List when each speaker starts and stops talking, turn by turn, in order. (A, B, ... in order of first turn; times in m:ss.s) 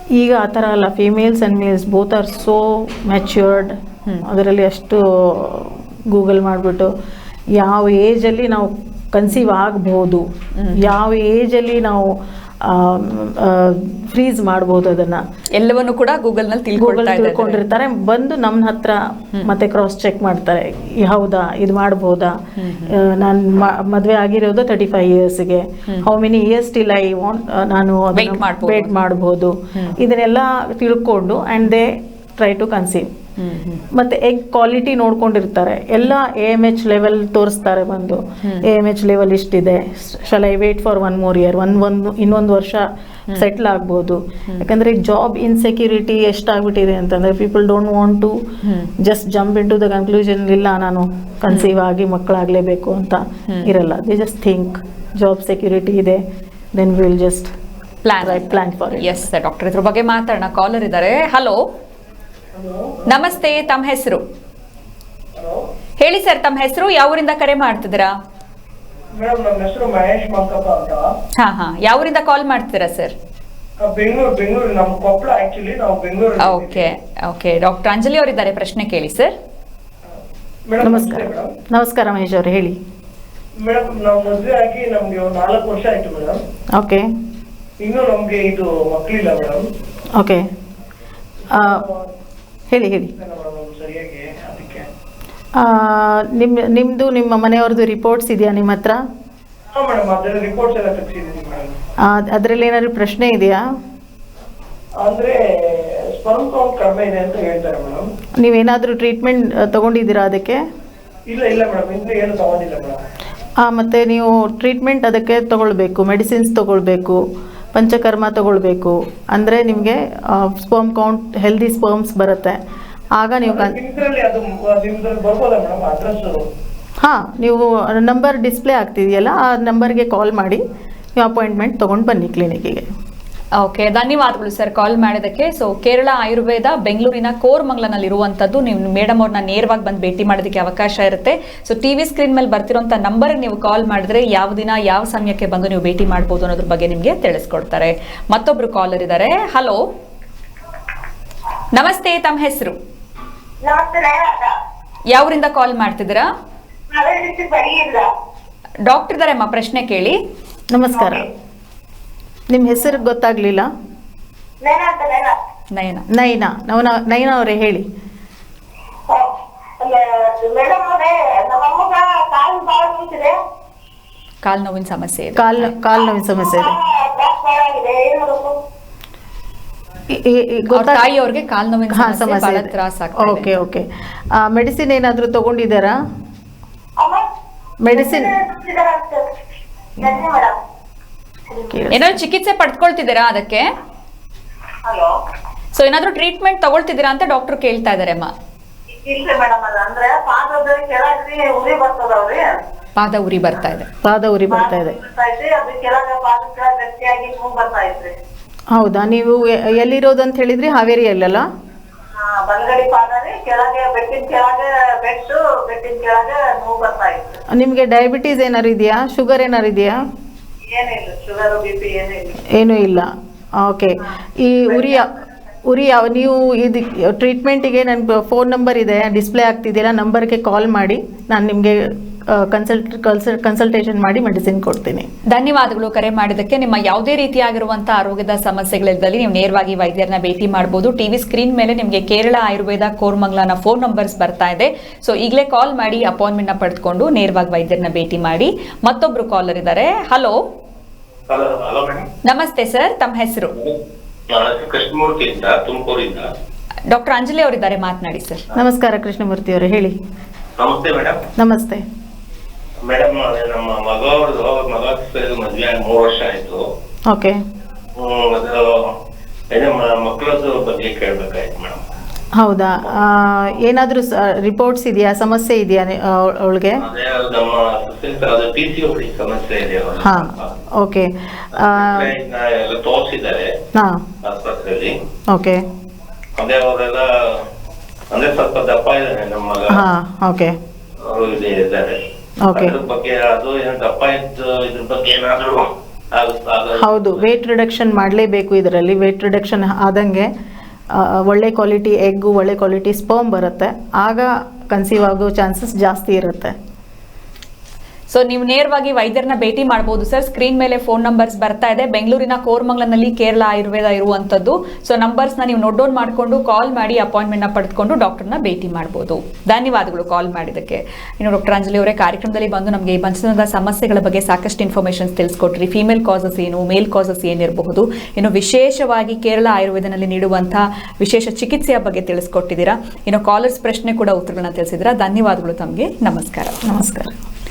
0:00.2-0:06.9 A
0:07.5-0:15.2 A
0:10.5-0:10.9 B
0:15.5-0:17.6 B
0:16.8-0:33.1 A
0:22.6-0:23.0 B
0:28.1-0:28.9 B
0:33.4-0:33.8 B
0:33.9-0:48.4 A
0:48.6-0:48.9 B
0:49.0-0:57.5 A
0:58.0-1:01.6 B
0:58.2-0:59.3 A
1:02.6-1:03.0 C
1:03.0-1:04.2 B
1:06.0-1:08.1 B
1:09.2-1:11.1 C
1:11.4-1:13.1 B
1:13.8-1:16.9 C
1:16.4-1:19.3 B
1:20.7-1:21.5 C
1:20.8-1:22.8 A
1:23.6-1:26.4 C
1:26.7-1:27.1 A
1:27.8-1:29.6 C
1:30.2-1:30.4 A
1:31.5-1:32.0 C
1:31.5-1:31.8 A
1:32.7-1:33.1 A
1:33.2-1:34.9 C
1:35.6-1:39.0 A
1:39.8-1:41.7 C
1:42.0-1:43.6 A
1:45.0-1:48.0 C
1:48.4-1:50.6 A
1:51.3-1:53.0 C
1:53.6-1:57.2 A
1:57.7-2:02.6 A
2:03.2-2:03.8 A
2:03.5-2:06.4 C
2:07.0-2:10.6 A
2:11.2-2:12.8 A
2:13.6-2:29.8 B
2:31.7-2:32.8 B
2:33.6-2:34.6 D
2:35.1-2:36.3 B
2:36.9-2:38.1 D
2:38.8-2:40.2 B
2:40.7-2:41.3 A
2:41.0-2:41.3 D
2:42.5-2:43.7 A
2:44.6-2:45.3 D
2:45.7-2:46.0 B
2:46.1-2:47.8 A
2:49.1-2:53.4 D
2:54.4-2:55.7 B
2:55.4-2:56.7 A
2:56.4-2:58.5 D
3:00.1-3:01.1 A
3:00.7-3:03.5 B
3:01.9-3:06.0 A
3:07.0-3:07.2 D
3:07.8-3:08.3 A
3:07.9-3:09.3 D
3:10.0-3:10.5 D
3:11.5-3:11.8 D
3:11.7-3:12.2 A
3:11.9-3:13.7 B
3:14.8-3:15.1 D
3:15.7-3:18.3 B
3:18.9-3:22.5 D
3:23.0-3:23.9 B
3:24.0-3:25.0 A
3:24.5-3:28.1 D
3:28.7-3:31.4 A
3:32.1-3:37.4 D
3:37.5-3:40.0 A
3:40.7-3:42.4 D
3:42.5-3:45.1 A
3:44.7-3:45.2 D
3:45.6-3:55.1 A
3:55.2-4:10.4 B
4:11.3-4:12.0 E
4:12.2-4:13.5 B
4:14.3-4:16.2 E
4:16.9-4:18.4 B
4:18.5-4:19.9 A
4:20.6-4:21.2 E
4:21.4-4:21.8 A
4:22.8-4:26.6 E
4:27.1-4:27.4 A
4:28.0-4:28.8 E
4:29.5-4:31.8 E
4:32.4-4:36.8 A
4:36.8-4:40.5 E
4:40.0-4:42.1 A
4:41.6-4:43.5 E
4:43.8-4:44.0 A
4:44.2-4:44.9 E
4:45.3-4:45.6 A
4:46.4-4:47.4 E
4:48.1-4:49.8 E
4:49.7-4:50.5 A
4:51.0-4:52.0 E
4:52.4-4:52.8 A
4:52.5-4:56.9 E
4:56.8-5:00.3 A
5:00.9-5:06.5 A
5:08.1-5:36.6 B
5:36.7-5:37.2 A